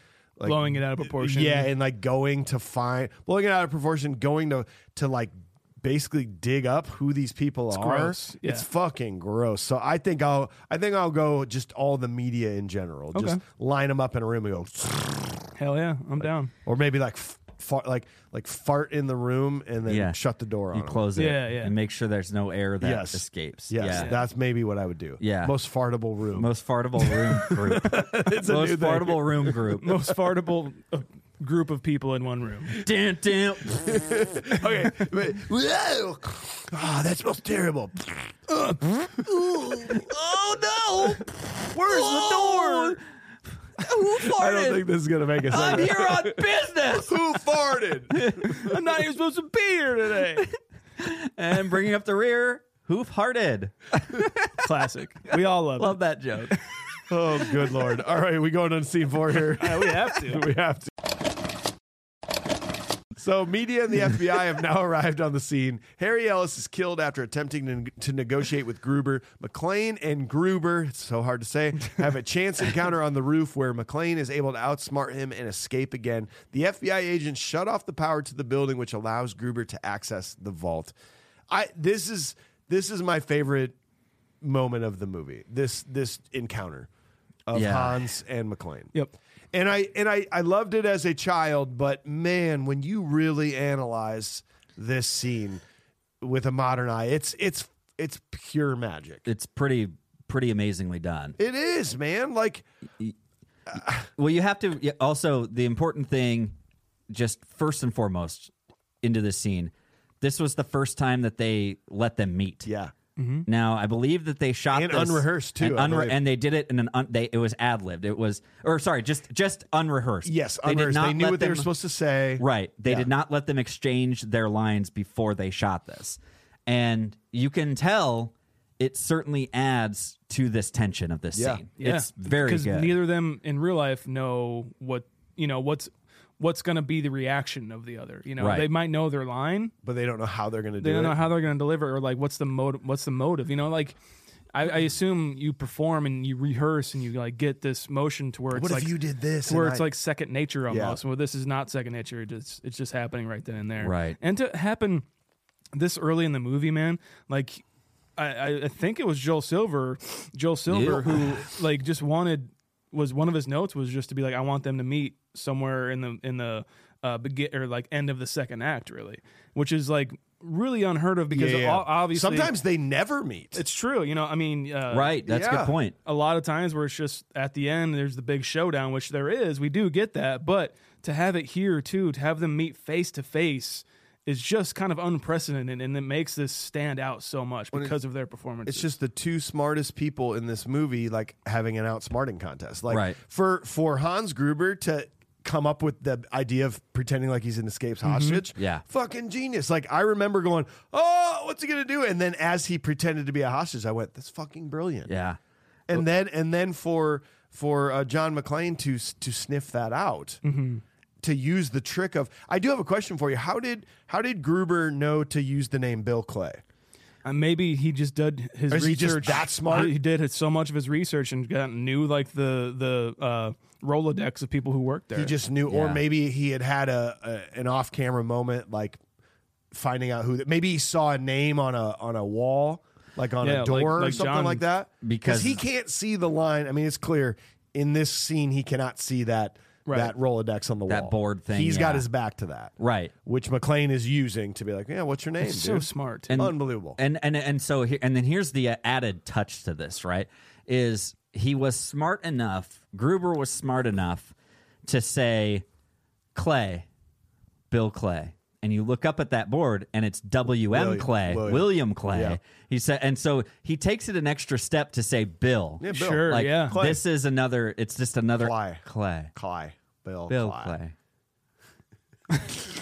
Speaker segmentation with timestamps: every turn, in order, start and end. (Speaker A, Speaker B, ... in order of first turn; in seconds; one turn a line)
Speaker A: 0.4-15.4
Speaker B: 0.4-1.7
Speaker B: 7.7-8.7
Speaker B: 13.1-13.4
Speaker B: 15.6-16.5
Speaker A: 16.6-21.0
Speaker C: 19.9-20.2
Speaker C: 20.7-24.1
Speaker B: 21.1-21.7
Speaker A: 22.8-26.5
Speaker B: 23.9-24.2
Speaker C: 25.2-25.5
Speaker C: 26.3-30.0
Speaker A: 27.0-29.6
Speaker B: 29.8-32.8
Speaker C: 32.8-34.0
Speaker A: 33.9-38.4
Speaker A: 39.2-40.0
Speaker C: 39.9-43.0
Speaker B: 41.7-43.0
Speaker C: 43.8-44.8
Speaker A: 44.3-46.4
Speaker C: 45.5-47.2
Speaker A: 46.9-48.3
Speaker C: 48.1-48.6
Speaker B: 48.6-50.5
Speaker C: 51.0-54.6
Speaker B: 54.6-56.5
Speaker C: 55.3-56.6
Speaker A: 57.1-60.9
Speaker B: 59.6-60.4
Speaker A: 63.1-80.9
Speaker A: 81.5-83.7
Speaker A: 84.4-86.9
Speaker A: 87.5-88.9
Speaker C: 87.5-88.1
Speaker A: 89.5-95.6
Speaker A: 96.2-99.2
Speaker C: 99.3-101.4
Speaker A: 101.4-102.7
Speaker A: 103.7-104.0
Speaker C: 104.2-106.5
Speaker C: 107.1-108.5
Speaker C: 109.0-112.7
Speaker A: 112.6-112.9
Speaker B: 113.2-113.5
Speaker C: 113.5-121.7
Speaker A: 114.7-116.2
Speaker A: 120.2-123.1
Speaker C: 122.4-132.9
Speaker A: 131.3-131.6
Speaker B: 131.8-139.7
Speaker C: 138.4-138.7
Speaker A: 139.8-141.2
Speaker B: 140.8-143.9
Speaker B: 144.5-148.9
Speaker A: 148.5-149.8
Speaker B: 149.5-155.0
Speaker A: 150.7-151.0
Speaker C: 153.8-154.2
Speaker B: 155.7-157.6
Speaker B: 158.2-172.5
Speaker C: 160.7-161.4
Speaker A: 171.3-173.6
Speaker B: 173.5-175.2
Speaker C: 174.9-175.9
Speaker A: 175.2-175.7
Speaker B: 176.1-188.9
Speaker A: 188.7-205.1
Speaker C: 192.9-193.2
Speaker B: 198.0-198.4
Speaker C: 198.6-198.8
Speaker C: 205.1-205.4
Speaker A: 205.9-210.4
Speaker B: 210.4-210.8
Speaker A: 211.2-216.6
Speaker B: 217.2-225.3
Speaker A: 218.7-219.9
Speaker A: 225.1-229.0
Speaker C: 225.7-226.0
Speaker A: 229.7-242.7
Speaker B: 233.4-234.6
Speaker C: 235.0-235.6
Speaker B: 239.9-240.1
Speaker C: 240.9-242.1
Speaker C: 242.8-243.1
Speaker A: 243.2-247.0
Speaker B: 245.4-246.4
Speaker C: 246.3-254.3
Speaker C: 254.8-255.6
Speaker C: 256.3-256.9
Speaker C: 257.7-269.3
Speaker A: 260.7-262.4
Speaker A: 265.8-267.0
Speaker B: 265.9-266.8
Speaker A: 268.4-268.8
Speaker A: 269.3-270.7
Speaker C: 270.3-270.9